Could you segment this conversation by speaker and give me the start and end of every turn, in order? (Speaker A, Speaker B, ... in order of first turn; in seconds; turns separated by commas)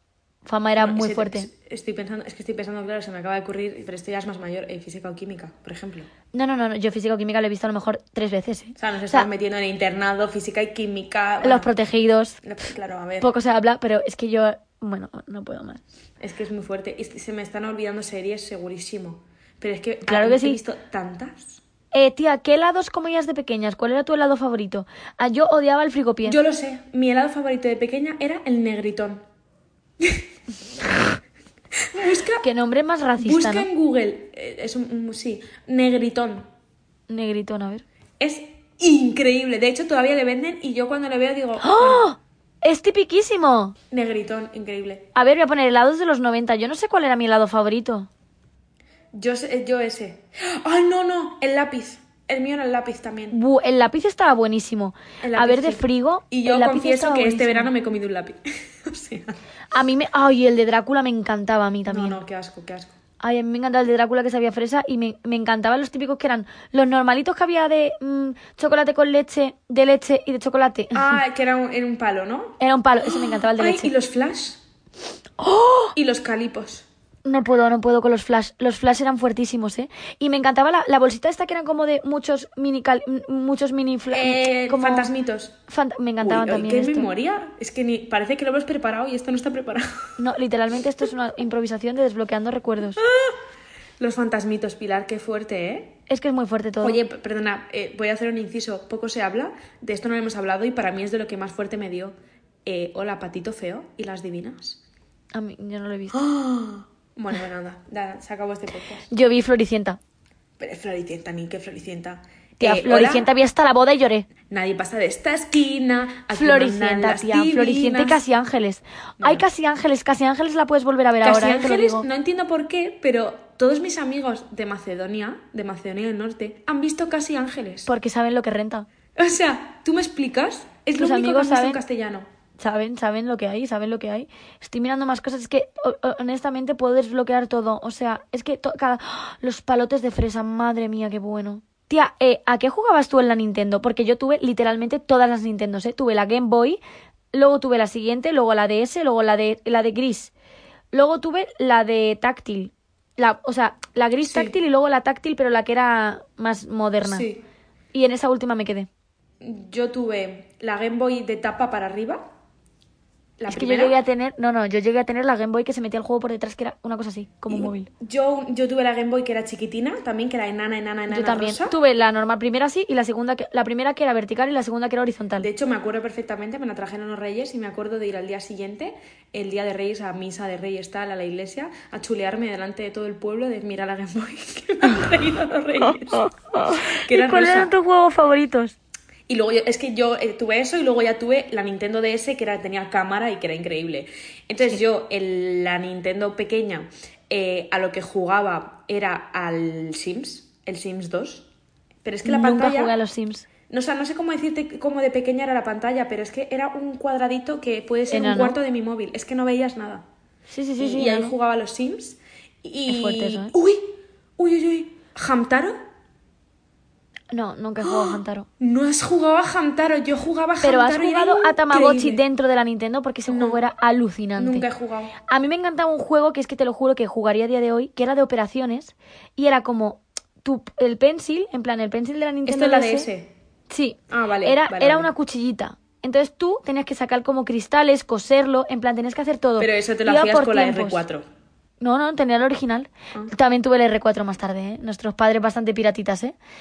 Speaker A: 0.5-1.5, Speaker B: 0.8-6.1, Speaker A: 6.3-9.3, Speaker B: 8.8-11.7, Speaker A: 11.4-12.4, Speaker B: 12.4-13.3, Speaker A: 13.2-15.8, Speaker B: 16.2-21.6, Speaker A: 20.1-20.6, Speaker A: 21.9-26.4, Speaker B: 26.2-29.2, Speaker B: 31.9-32.5, Speaker A: 32.4-33.7, Speaker B: 33.2-36.5, Speaker A: 37.1-37.9, Speaker B: 38.2-42.1, Speaker A: 41.6-43.8, Speaker B: 43.9-45.1, Speaker A: 45.1-48.1, Speaker B: 49.1-53.4, Speaker A: 53.3-57.7, Speaker B: 55.2-59.4, Speaker A: 59.7-62.2, Speaker B: 61.9-62.9, Speaker A: 63.2-71.2, Speaker B: 70.9-74.6, Speaker A: 72.6-73.9, Speaker A: 75.4-76.0, Speaker B: 76.0-76.9, Speaker A: 77.2-85.1, Speaker B: 84.1-85.6, Speaker A: 85.7-87.1, Speaker B: 86.2-90.1, Speaker A: 90.2-93.0, Speaker B: 93.0-93.4, Speaker B: 94.0-96.0, Speaker A: 96.1-97.0, Speaker B: 96.8-104.8, Speaker A: 105.3-106.2, Speaker B: 106.1-109.1, Speaker A: 109.1-110.0, Speaker B: 110.6-113.3, Speaker A: 112.6-114.3, Speaker B: 114.5-118.2, Speaker A: 116.3-122.1, Speaker B: 119.2-119.5, Speaker B: 121.2-127.9, Speaker A: 127.9-128.9, Speaker B: 129.2-132.3, Speaker A: 130.9-131.8, Speaker A: 132.6-146.8, Speaker A: 147.3-150.3, Speaker A: 150.9-157.3, Speaker B: 154.2-154.6, Speaker B: 157.0-157.4, Speaker A: 157.9-158.9, Speaker B: 159.4-162.3, Speaker B: 163.4-164.0, Speaker A: 163.5-167.9, Speaker B: 167.5-171.8, Speaker A: 171.1-175.5, Speaker B: 175.4-187.7, Speaker A: 186.2-188.8, Speaker B: 189.3-201.5, Speaker B: 202.0-202.9, Speaker A: 202.2-203.5, Speaker B: 203.7-210.1, Speaker A: 208.1-208.6, Speaker A: 210.5-211.3, Speaker B: 210.8-215.8, Speaker A: 212.9-213.5, Speaker A: 217.3-218.5, Speaker B: 217.8-222.2, Speaker A: 220.6-224.7, Speaker B: 223.3-223.6, Speaker B: 224.4-225.2, Speaker A: 225.3-233.1, Speaker B: 232.5-233.3, Speaker A: 233.7-241.0, Speaker B: 234.1-235.1, Speaker B: 239.6-241.2, Speaker A: 241.8-246.3